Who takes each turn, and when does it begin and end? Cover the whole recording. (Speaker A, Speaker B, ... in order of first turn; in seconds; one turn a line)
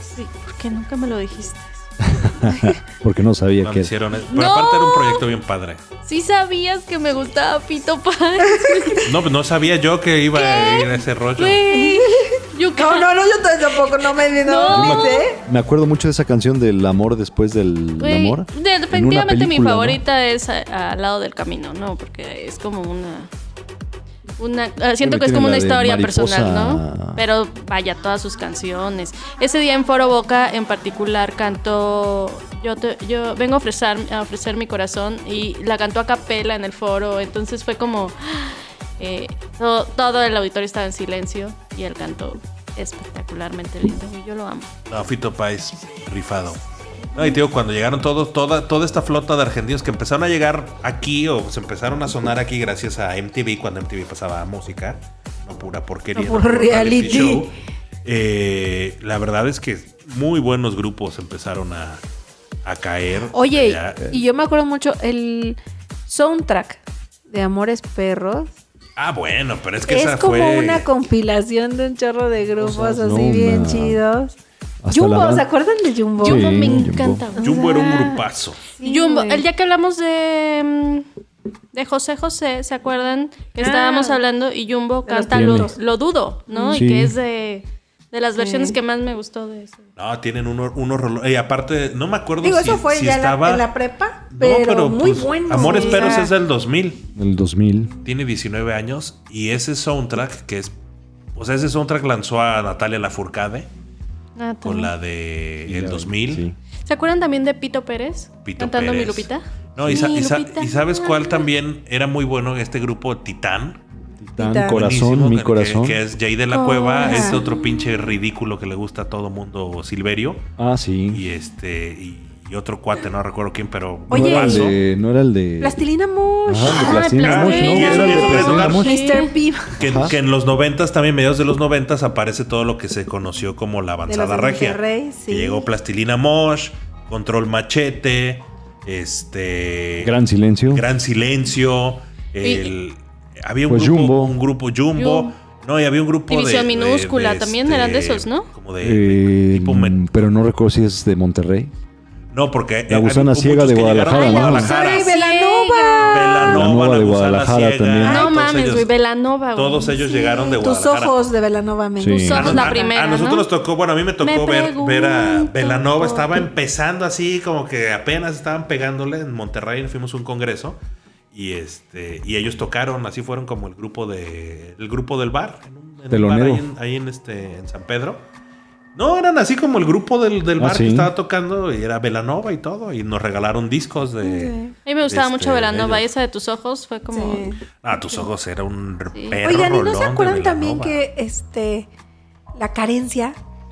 Speaker A: 0.1-1.9
Speaker B: 2.0-3.9
Speaker C: 3.6-5.8
Speaker A: 4.3-5.2
Speaker A: 6.0-9.2
Speaker D: 8.4-9.1
Speaker C: 9.0-11.7
Speaker A: 10.3-13.1
Speaker D: 11.7-15.4
Speaker A: 14.2-15.3
Speaker B: 14.7-20.0
Speaker A: 18.0-23.3
Speaker A: 24.4-44.7
Speaker B: 25.0-27.2
Speaker C: 44.9-46.6
Speaker C: 47.1-57.5
Speaker D: 56.1-57.5
Speaker C: 58.0-62.0
Speaker C: 62.6-64.1
Speaker D: 63.3-68.5
Speaker C: 69.0-70.9
Speaker D: 69.9-74.4
Speaker B: 72.6-74.0
Speaker B: 74.8-75.5
Speaker D: 74.9-78.2
Speaker A: 76.2-78.1
Speaker B: 76.2-77.3
Speaker C: 77.4-78.6
Speaker D: 78.8-79.5
Speaker A: 78.8-81.1
Speaker A: 81.7-89.8
Speaker D: 83.6-84.2
Speaker D: 85.1-85.8
Speaker B: 85.3-85.7
Speaker D: 86.5-86.8
Speaker B: 86.7-87.2
Speaker D: 88.4-88.8
Speaker C: 90.0-93.7
Speaker D: 92.4-96.3
Speaker C: 94.3-97.1
Speaker A: 95.5-96.3
Speaker B: 97.2-97.9
Speaker C: 98.0-100.7
Speaker C: 101.3-103.7
Speaker A: 104.4-104.9
Speaker C: 104.6-106.5
Speaker B: 105.7-106.6
Speaker A: 106.8-111.5
Speaker C: 108.4-113.8
Speaker B: 114.2-116.0
Speaker D: 114.4-114.8
Speaker C: 114.7-120.4
Speaker A: 116.5-118.1
Speaker D: 117.0-117.4
Speaker B: 120.6-121.2
Speaker C: 121.1-124.8
Speaker B: 124.1-125.8
Speaker D: 124.1-124.8
Speaker D: 125.6-129.8
Speaker B: 126.5-128.9
Speaker A: 126.7-129.3
Speaker C: 127.2-128.9
Speaker C: 129.8-140.1
Speaker B: 129.8-130.2
Speaker D: 134.1-135.7
Speaker B: 140.0-140.8
Speaker C: 140.7-150.1
Speaker A: 142.4-142.7
Speaker B: 143.7-144.4
Speaker A: 144.9-145.3
Speaker A: 146.3-148.5
Speaker B: 148.8-151.7
Speaker C: 152.3-155.2
Speaker B: 152.9-154.7
Speaker A: 154.1-156.4
Speaker D: 154.1-156.6
Speaker C: 156.1-158.9
Speaker B: 156.4-158.3
Speaker A: 158.0-160.2
Speaker C: 159.6-161.3
Speaker D: 160.1-162.8
Speaker B: 162.0-162.7
Speaker A: 162.1-163.5
Speaker C: 162.3-170.8
Speaker A: 164.2-166.5
Speaker C: 171.3-178.2
Speaker B: 176.1-176.6
Speaker C: 179.0-186.1
Speaker B: 180.6-181.1
Speaker D: 184.2-184.7
Speaker A: 184.9-187.5
Speaker D: 187.1-187.6
Speaker C: 187.8-191.0
Speaker A: 189.1-189.4
Speaker D: 189.4-191.9
Speaker D: 192.6-193.4